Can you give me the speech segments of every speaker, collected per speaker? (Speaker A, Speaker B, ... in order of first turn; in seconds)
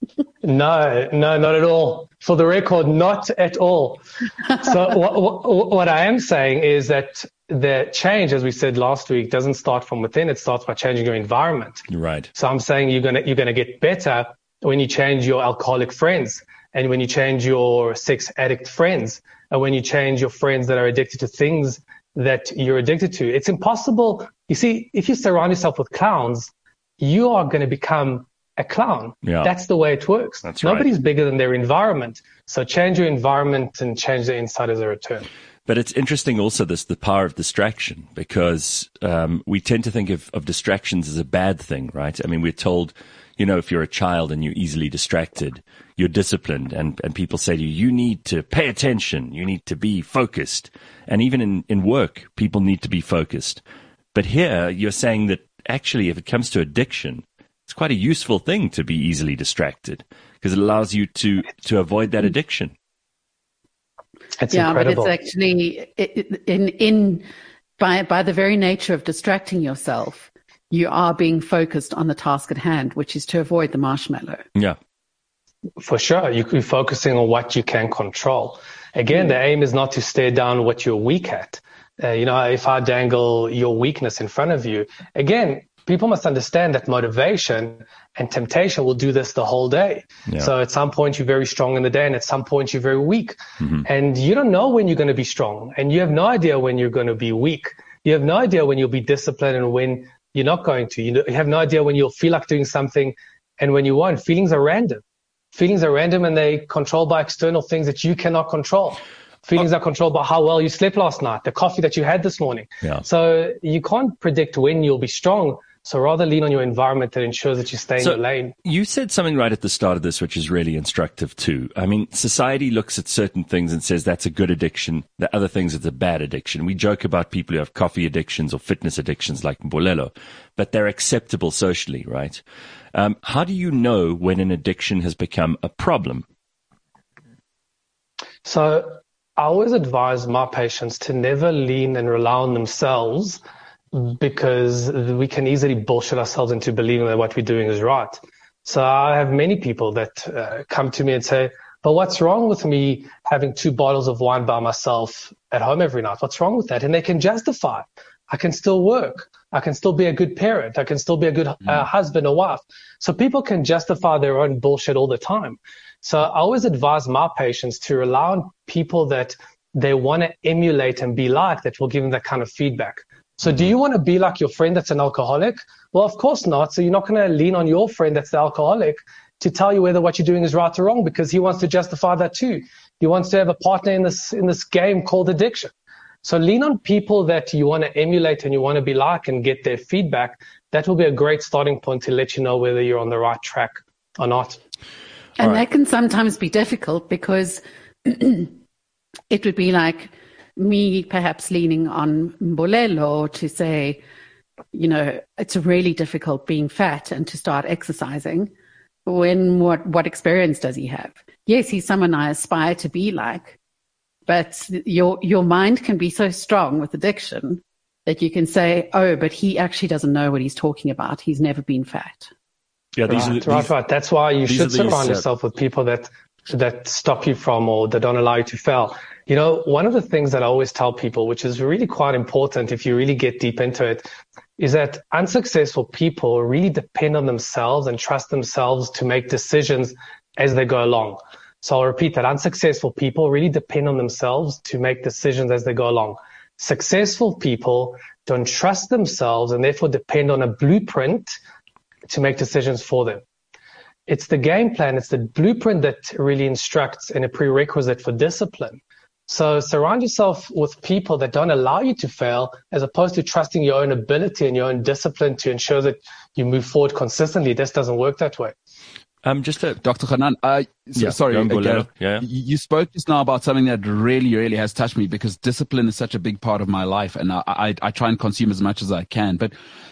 Speaker A: 0.4-4.0, 4.6-11.8, 12.3-35.3, 64.4-65.1, 75.8-105.0, 105.5-118.5, 138.4-143.4, 143.9-185.7, 186.2-194.6, 223.1-234.1, 234.6-251.4, 252.1-253.2, 254.1-268.5
Speaker B: 11.9-12.3, 29.2-29.5, 30.4-30.9, 35.7-53.6, 54.1-62.7, 118.0-132.4, 132.9-136.2, 223.0-223.7, 224.5-225.2, 269.2-269.8, 271.0-272.2
Speaker C: 64.5-67.2, 67.8-74.4, 195.4-198.5, 199.3-204.0, 204.7-208.5, 209.1-213.6, 214.3-222.3
Speaker D: 269.8-279.5